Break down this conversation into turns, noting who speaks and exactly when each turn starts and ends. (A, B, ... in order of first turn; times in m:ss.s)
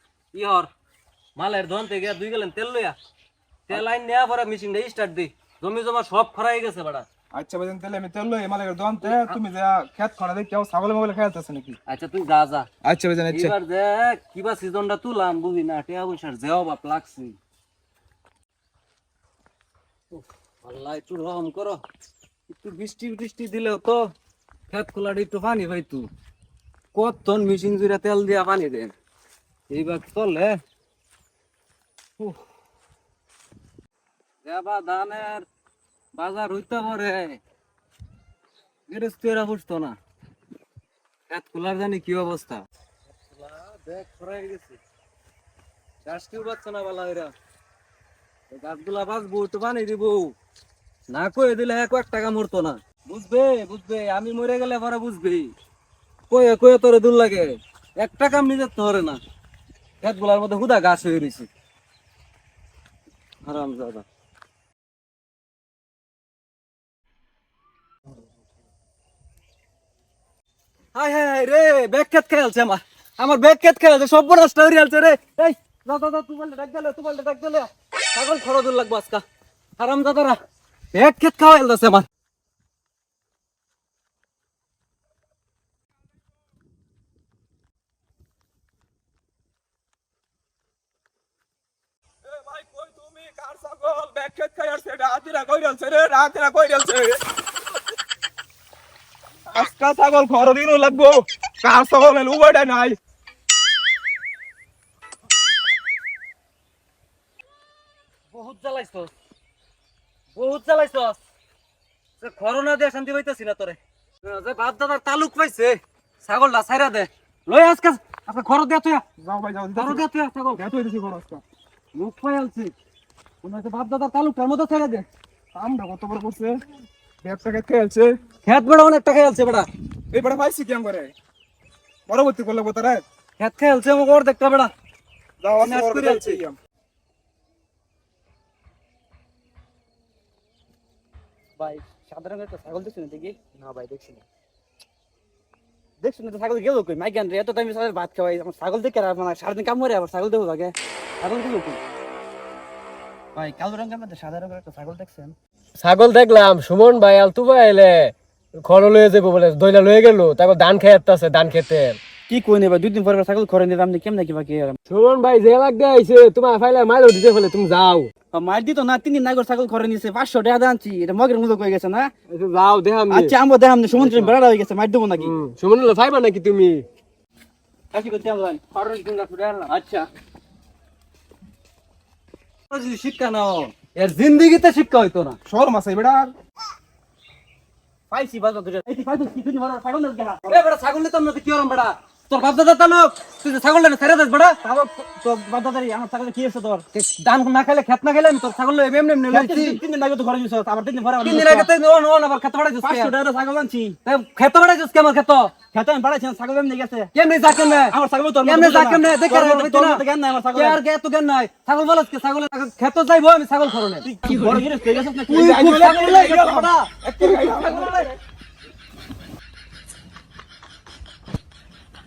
0:00.3-0:00.7 A
0:01.4-0:03.0 A
0:03.7-0:07.0 A
0:07.3-0:11.8 B
0:09.0-0:09.4 A
0:11.9-0:12.7 A
0:12.8-0:13.5 B
0:13.3-0:17.4 A
0:20.1-0:21.8 A
0:22.5-0:24.1 A
0:24.7-0:26.1 A
0:26.9-0:28.9 A
0:29.7-0:30.6 A
0:34.4-0:35.4 A
0:36.1-0:37.4 A
0:38.9-0:40.0 A
0:41.3-0:42.6 A
0:43.3-0:44.8 A
0:46.0-0:47.3 A
0:48.5-0:50.3 A
0:51.1-0:55.5 A
0:56.3-0:59.2 A
1:00.0-1:01.5 A
1:03.4-1:04.0 A
1:10.9-1:19.2 A
1:19.8-1:20.4 A
1:20.9-1:22.0 A
1:32.2-1:37.2 B
1:39.5-1:43.0 B
1:48.3-1:49.1 A
1:50.3-1:51.2 A
1:52.2-1:59.0 A
1:59.2-2:00.0 B
1:59.8-2:00.6 A
2:00.6-2:01.4 B
2:01.9-2:02.7 A
2:03.4-2:05.0 A
2:05.5-2:06.6 B
2:07.2-2:08.2 B
2:08.4-2:09.6 A
2:10.1-2:11.1 B
2:12.1-2:13.0 B
2:13.4-2:14.7 A
2:15.4-2:16.6 B
2:15.6-2:16.4 A
2:21.6-2:24.2 C
2:26.0-2:31.8 C
2:33.3-2:35.3 C
2:35.8-2:42.0 D
2:42.3-2:44.8 C
2:44.9-2:48.1 D
2:48.3-2:52.1 C
2:52.3-2:53.3 D
2:53.1-2:55.3 C
2:55.2-2:56.9 D
2:57.9-2:58.8 C
2:58.8-3:00.0 A
3:02.7-3:05.4 A
3:05.4-3:06.3 B
3:08.1-3:10.6 C
3:10.5-3:14.6 A
3:14.6-3:16.8 C
3:16.9-3:19.8 A
3:19.3-3:21.7 C
3:21.2-3:23.1 A
3:22.8-3:24.0 C
3:24.0-3:25.5 A
3:25.7-3:27.1 C
3:27.1-3:30.0 A
3:27.9-3:30.8 C
3:30.5-3:34.6 A
3:34.0-3:36.3 C
3:35.3-3:38.1 A
3:35.3-3:38.0 B
3:37.4-3:38.0 C